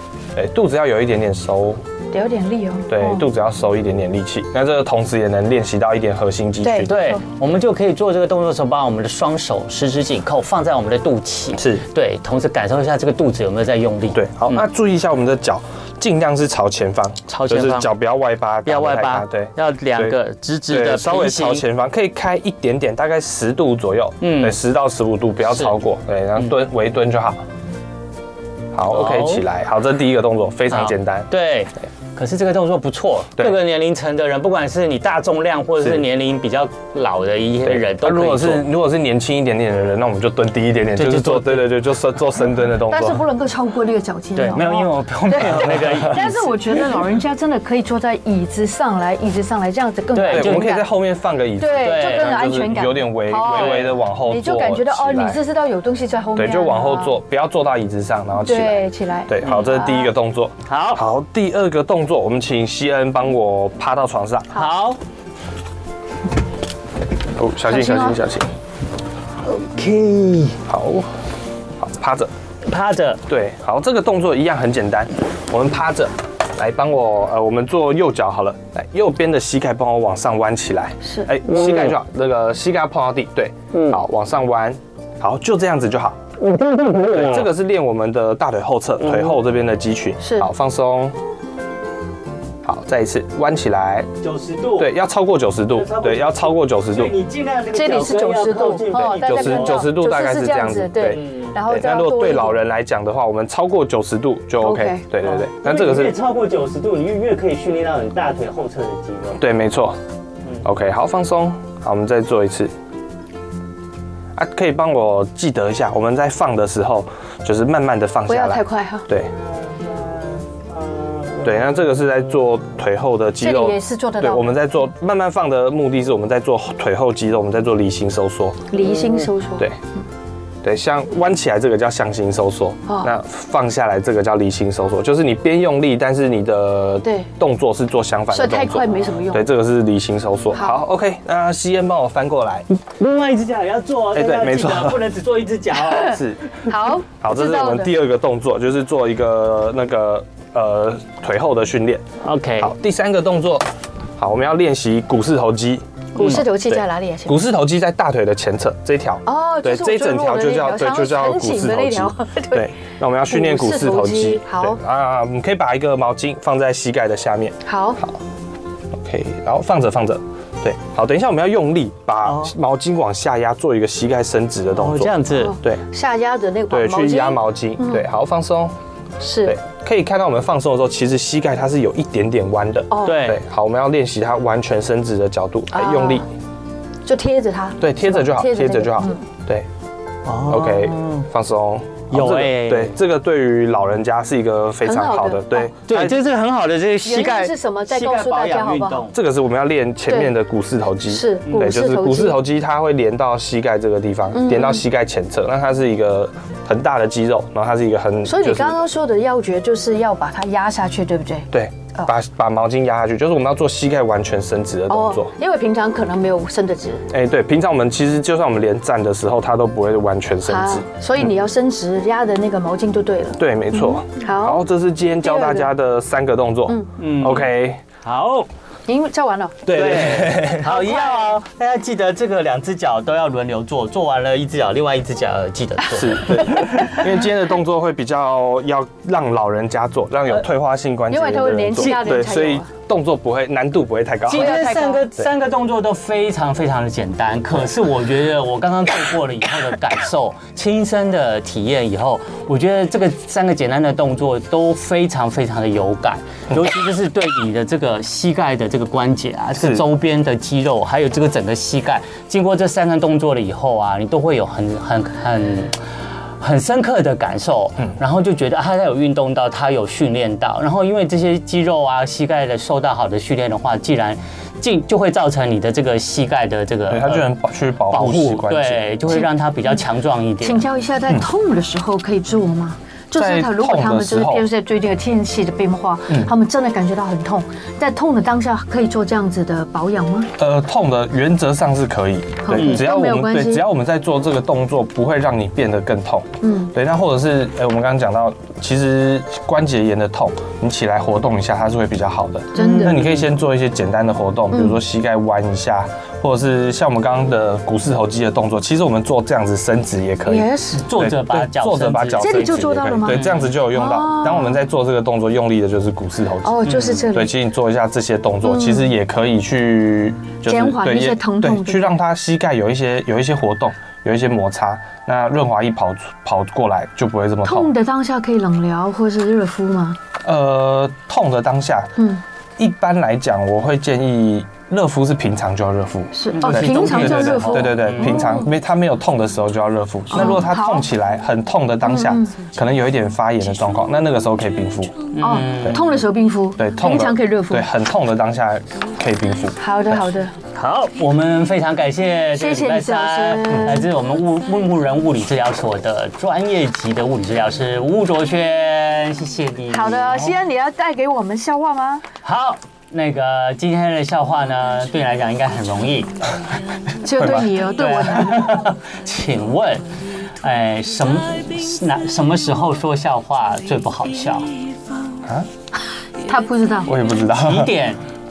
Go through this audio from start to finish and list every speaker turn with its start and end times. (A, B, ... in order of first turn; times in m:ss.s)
0:00.3-0:01.8 A
0:02.1-0:03.2 B
0:02.9-0:06.9 A
0:06.6-0:07.2 B
0:06.8-0:14.6 C
0:11.5-0:11.8 A
0:14.1-0:27.4 A
0:17.3-0:17.9 C
0:18.6-0:21.6 C
0:24.2-0:24.6 C
0:25.5-0:25.7 C
0:28.7-0:31.3 A
0:28.9-0:29.4 C
0:30.7-0:38.7 C
0:37.6-0:43.2 A
0:41.0-0:41.8 C
0:42.8-0:50.9 B
0:44.4-0:47.0 C
0:45.4-0:46.2 A
0:50.1-0:50.8 C
0:50.3-0:55.4 A
0:51.6-0:57.2 B
0:51.7-0:52.4 C
0:53.5-0:53.9 C
0:56.4-1:04.6 A
0:58.4-1:00.1 B
1:00.7-1:01.0 C
1:04.5-1:05.0 C
1:07.3-1:08.5 A
1:07.7-1:08.2 B
1:09.4-1:10.6 C
1:10.6-1:11.1 A
1:11.8-1:12.3 A
1:12.6-1:13.2 C
1:13.2-1:26.2 A
1:21.0-1:21.3 B
1:21.4-1:22.0 C
1:23.7-1:24.0 C
1:26.4-1:27.5 C
1:27.1-1:31.2 A
1:29.0-1:29.3 C
1:30.2-1:30.5 B
1:32.6-1:34.1 A
1:34.2-1:34.9 C
1:34.8-1:37.2 A
1:35.7-1:39.9 C
1:37.7-1:42.6 B
1:38.9-1:46.1 A
1:41.1-1:41.6 C
1:44.6-1:45.1 B
1:45.2-1:49.4 C
1:49.4-1:50.0 A
1:50.6-1:52.7 A
1:54.3-1:59.3 A
1:58.3-1:59.1 B
1:59.6-2:01.6 C
2:01.4-2:08.7 A
2:03.4-2:04.5 B
2:08.7-2:09.7 B
2:08.8-2:09.2 C
2:10.6-2:22.7 A
2:12.9-2:13.1 B
2:18.3-2:19.5 B
2:20.5-2:20.8 B
2:22.7-2:26.2 C
2:24.1-2:25.0 A
2:26.0-2:26.5 A
2:26.6-2:27.9 B
2:27.2-2:32.0 A
2:32.2-2:32.7 C
2:32.6-2:33.6 A
2:34.2-2:48.2 A
2:36.1-2:37.4 B
2:36.2-2:36.4 C
2:39.2-2:42.7 B
2:43.3-2:44.8 B
2:47.6-2:48.0 B
2:48.9-2:55.8 A
2:52.2-2:52.5 C
2:54.7-2:55.6 C
2:55.3-2:58.0 B
2:56.7-2:58.7 A
2:59.2-2:59.5 B
2:59.4-3:06.2 A
3:02.9-3:03.2 B
3:03.0-3:03.4 C
3:05.7-3:06.2 B
3:07.0-3:09.2 B
3:07.8-3:09.7 A
3:10.2-3:11.3 C
3:10.5-3:16.2 A
3:12.1-3:12.9 C
3:14.8-3:15.7 B
3:15.9-3:19.1 C
3:17.0-3:19.1 B
3:19.1-3:28.8 A
3:20.1-3:20.3 B
3:21.0-3:22.4 B
3:24.3-3:24.8 B
3:28.2-3:32.1 B
3:31.5-3:35.3 A
3:34.9-3:37.1 B
3:37.1-3:40.8 A
3:40.4-3:44.6 B
3:43.4-3:47.8 A
3:45.2-3:45.7 B
3:47.0-3:48.5 C
3:48.9-3:49.7 B
3:49.6-3:50.7 A
3:49.7-3:57.0 C
3:50.6-3:51.4 B
3:55.9-4:04.6 A
3:56.5-3:57.0 B
4:01.1-4:02.7 B
4:01.8-4:02.2 C
4:04.3-4:05.0 B
4:04.3-4:25.8 C
4:19.6-4:19.8 A
4:26.4-4:37.3 C
4:36.9-4:38.8 A
4:37.9-4:40.6 C
4:39.1-4:39.8 B
4:40.4-4:50.3 B
4:43.1-4:44.4 A
4:50.4-5:27.7 A
4:52.4-4:53.6 B
4:52.5-4:52.8 C
4:56.4-4:56.7 B
5:02.5-5:03.0 B
5:02.6-5:03.1 C
5:04.5-5:04.8 B
5:10.2-5:10.8 B
5:10.8-5:13.4 C
5:12.2-5:14.6 B
5:16.4-5:17.3 B
5:16.6-5:17.0 C
5:18.4-5:18.9 B
5:20.4-5:22.0 B
5:27.4-5:30.0 B
5:30.2-5:31.9 A
5:32.0-5:32.2 B
5:32.6-5:45.1 A
5:36.1-5:38.5 B
5:36.4-5:38.3 C
5:40.1-5:40.8 B
5:41.8-5:42.3 B
5:45.1-5:45.9 C
5:45.2-5:47.7 B
5:46.6-5:49.6 A
5:49.6-5:50.3 B
5:50.5-6:00.4 C
5:52.3-5:53.9 B
5:53.5-5:53.8 A
5:59.7-6:02.0 B
6:02.2-6:06.3 C
6:07.0-6:08.5 B
6:07.2-6:07.6 A
6:07.5-6:14.5 C
6:16.2-6:16.9 B
6:16.8-6:17.8 A
6:17.3-6:18.0 C